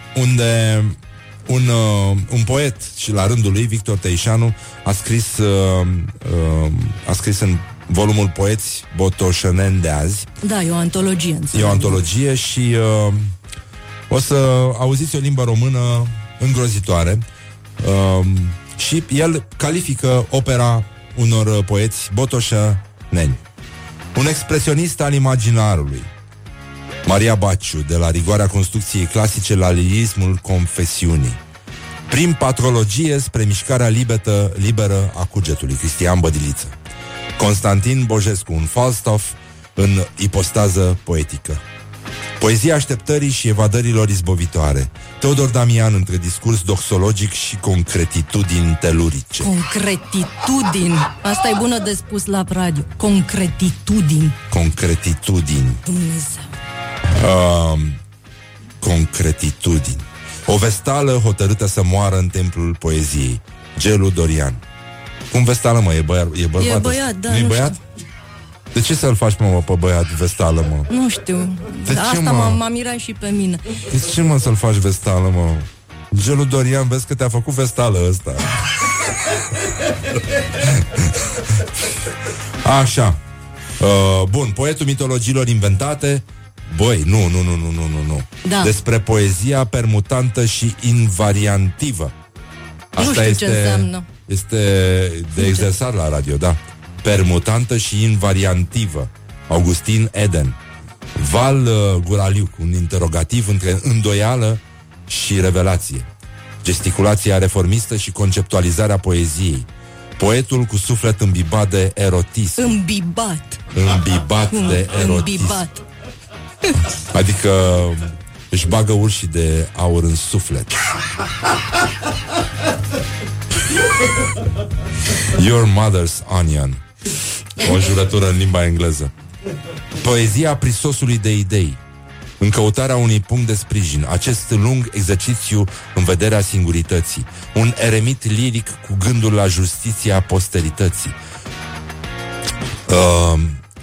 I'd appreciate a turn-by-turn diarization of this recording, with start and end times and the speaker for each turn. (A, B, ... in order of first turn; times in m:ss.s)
0:00.2-0:10.3 A
0:10.4-0:12.0 B
0:11.5-0:13.3 A
0:14.1-0:17.2 A
0:17.8-0:23.4 A
0:24.2-0:26.1 A
0:27.1-0:31.4 A
0:32.1-0:36.8 A
0:37.4-0:41.6 A
0:42.4-0:49.5 A
0:49.4-0:54.4 B
0:54.5-0:55.8 A
0:55.8-0:56.5 B
0:57.1-0:58.0 A
0:58.8-1:04.6 A
1:05.3-1:07.8 A
1:06.6-1:07.8 B
1:08.7-1:10.9 A
1:10.9-1:13.6 B
1:11.8-1:12.6 A
1:13.9-1:18.6 A
1:20.6-1:21.2 A
1:22.6-1:23.2 A
1:23.8-1:32.1 A
1:28.4-1:28.8 B
1:33.0-1:40.6 A
1:33.0-1:34.1 B
1:35.4-1:35.7 B
1:41.2-1:46.1 A
1:46.6-1:49.7 A
1:50.2-1:52.7 A
1:52.6-1:53.6 B
1:53.7-1:55.6 A
1:54.5-1:55.8 B
1:57.1-2:00.7 A
2:05.3-2:06.8 A
2:07.6-2:09.1 A
2:10.0-2:11.8 A
2:12.4-2:21.2 A
2:22.9-2:23.6 A